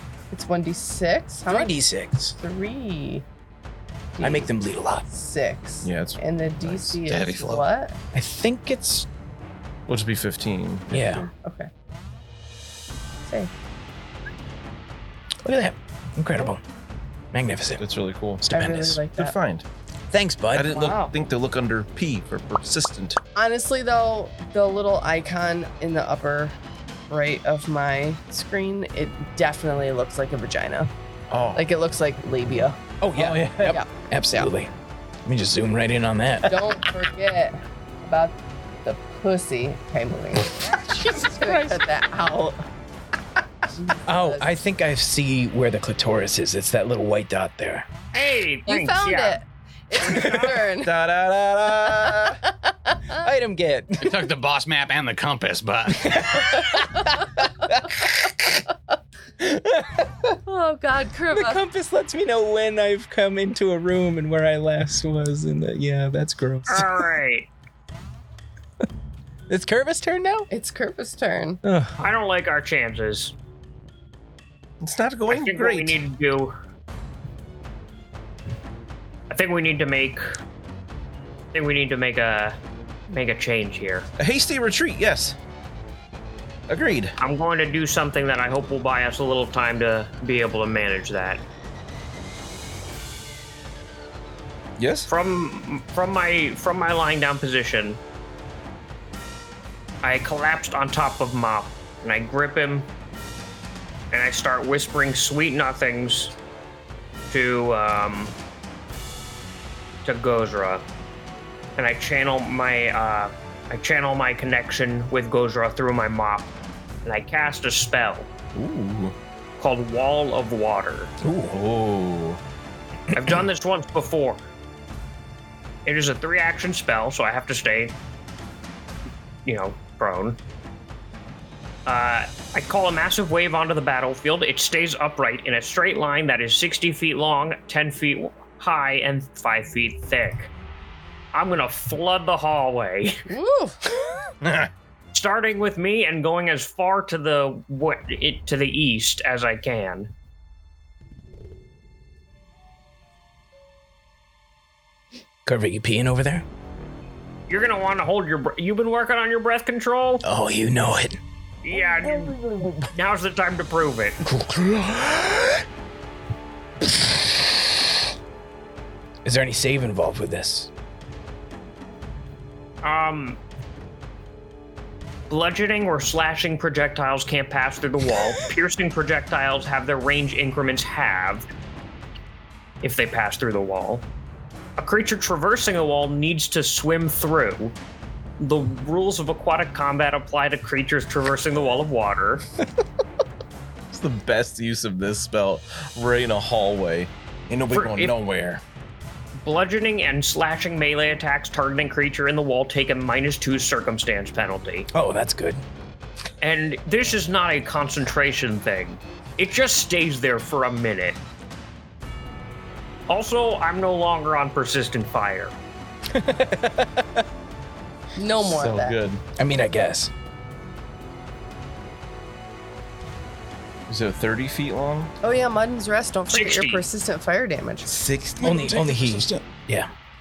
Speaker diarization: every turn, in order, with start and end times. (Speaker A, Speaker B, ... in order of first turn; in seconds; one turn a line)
Speaker A: 0.3-1.8
Speaker B: 1.5-2.4
Speaker A: 2.4-3.2
Speaker A: 4.2-8.0
Speaker B: 4.2-5.0
Speaker C: 5.8-7.0
Speaker D: 7.1-7.6
Speaker B: 8.1-9.1
Speaker C: 9.9-10.9
Speaker B: 10.9-11.3
Speaker A: 10.9-11.7
Speaker A: 13.3-13.5
Speaker B: 15.4-16.6
Speaker B: 17.3-17.8
Speaker C: 17.8-18.4
Speaker B: 18.4-19.0
Speaker A: 18.5-19.4
Speaker C: 19.2-19.6
Speaker B: 20.1-20.9
Speaker C: 20.5-23.2
Speaker A: 20.7-21.1
Speaker A: 23.4-26.6
Speaker A: 27.1-30.9
Speaker C: 31.3-31.6
Speaker A: 31.5-32.8
Speaker B: 33.0-34.7
Speaker C: 33.2-33.8
Speaker A: 33.6-34.5
Speaker B: 35.2-36.6
Speaker A: 36.5-42.6
Speaker B: 40.6-41.8
Speaker A: 43.8-44.6
Speaker B: 44.1-47.9
Speaker E: 48.1-49.4
Speaker A: 48.7-50.9
Speaker B: 50.1-50.5
Speaker C: 50.7-52.4
Speaker A: 51.9-53.3
Speaker B: 53.2-54.3
Speaker D: 54.0-56.2
Speaker B: 55.9-58.0
Speaker A: 60.5-61.6
Speaker B: 61.3-67.1
Speaker E: 66.7-67.5
Speaker B: 69.5-70.5
Speaker A: 70.5-71.6
Speaker B: 71.6-72.0
Speaker E: 72.0-73.3
Speaker C: 74.8-76.0
Speaker E: 75.3-76.6
Speaker E: 79.3-80.4
Speaker E: 81.5-82.6
Speaker E: 83.1-84.1
Speaker C: 84.2-85.4
Speaker C: 86.7-87.2
Speaker E: 87.2-91.4
Speaker C: 94.8-95.1
Speaker E: 95.1-98.0
Speaker E: 100.0-102.9
Speaker E: 104.1-106.3
Speaker E: 107.3-108.4
Speaker E: 110.0-110.8
Speaker E: 111.8-116.5
Speaker E: 117.0-118.3
Speaker C: 118.5-119.2
Speaker E: 119.6-121.1
Speaker B: 121.2-121.5
Speaker C: 121.5-122.4
Speaker E: 123.1-124.4
Speaker E: 125.8-128.0
Speaker E: 129.4-130.4
Speaker E: 131.9-140.5
Speaker E: 141.3-143.3
Speaker A: 143.3-143.8
Speaker C: 144.4-144.7
Speaker E: 145.1-150.1
Speaker B: 155.4-156.5
Speaker E: 157.5-160.2
Speaker B: 160.2-161.2
Speaker E: 161.6-162.4
Speaker E: 162.9-164.2
Speaker B: 164.2-165.6
Speaker B: 169.2-170.7
Speaker E: 172.8-173.4
Speaker E: 175.3-181.5
Speaker E: 182.8-184.1
Speaker E: 184.8-187.8
Speaker E: 188.4-192.4
Speaker C: 193.9-198.6
Speaker E: 197.7-198.1
Speaker E: 199.4-204.9
Speaker B: 204.9-205.6
Speaker E: 206.4-211.2
Speaker E: 213.1-215.5
Speaker B: 216.1-217.2
Speaker A: 218.2-219.0
Speaker C: 218.4-219.2
Speaker B: 219.4-220.1
Speaker C: 223.9-225.1
Speaker A: 225.2-227.9
Speaker E: 226.3-226.9
Speaker C: 227.9-229.4
Speaker B: 228.4-229.9